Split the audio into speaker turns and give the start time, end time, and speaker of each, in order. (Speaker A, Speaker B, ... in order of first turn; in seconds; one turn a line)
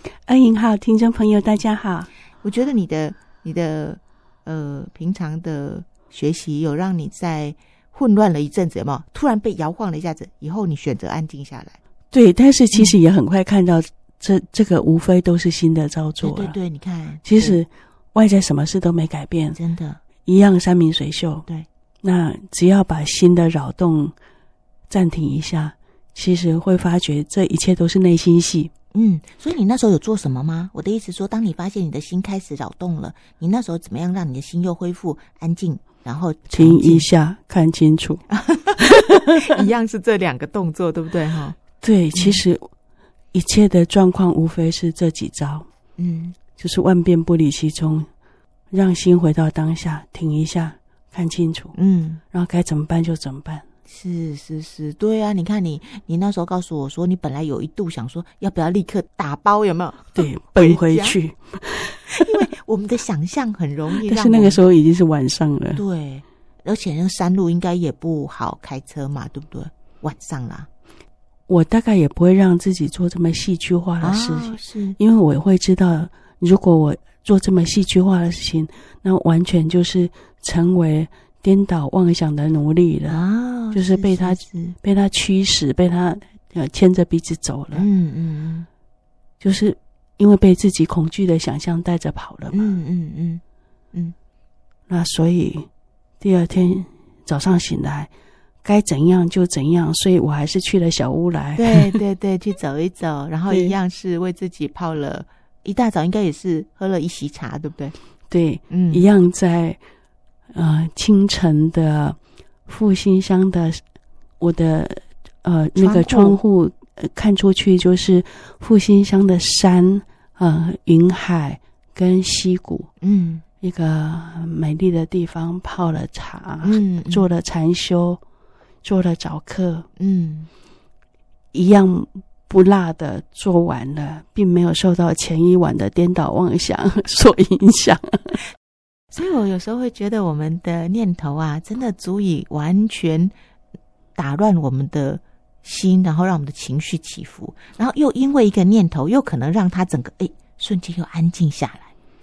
Speaker A: 0.3-2.1
Speaker B: 2.4-11.8
Speaker A: 12.1-16.5
Speaker B: 16.2-17.6
Speaker A: 17.2-19.6
Speaker B: 19.6-20.0
Speaker A: 20.2-21.4
Speaker A: 22.0-24.1
Speaker A: 24.9-28.7
Speaker B: 28.9-37.0
Speaker A: 36.5-38.2
Speaker B: 38.3-41.6
Speaker A: 38.8-39.3
Speaker A: 41.8-42.7
Speaker B: 42.1-42.4
Speaker A: 43.3-45.7
Speaker B: 46.0-46.4
Speaker A: 46.6-48.1
Speaker A: 48.7-51.7
Speaker B: 51.7-52.2
Speaker A: 52.3-53.6
Speaker B: 53.9-61.2
Speaker A: 60.1-62.3
Speaker B: 62.1-64.6
Speaker A: 64.0-65.8
Speaker B: 65.8-70.7
Speaker A: 71.5-87.8
Speaker B: 74.0-75.0
Speaker B: 83.1-84.8
Speaker B: 87.7-88.7
Speaker A: 89.4-92.7
Speaker B: 92.5-93.4
Speaker A: 94.9-95.7
Speaker A: 96.2-98.1
Speaker A: 98.6-102.0
Speaker B: 101.5-107.9
Speaker A: 103.5-103.7
Speaker A: 108.3-109.8
Speaker B: 108.7-109.0
Speaker A: 110.5-113.8
Speaker A: 114.4-122.9
Speaker B: 115.8-116.4
Speaker B: 123.0-123.4
Speaker A: 123.6-128.2
Speaker B: 126.6-127.2
Speaker A: 128.8-129.9
Speaker B: 130.0-130.5
Speaker A: 131.5-138.4
Speaker B: 139.1-143.3
Speaker B: 144.2-151.9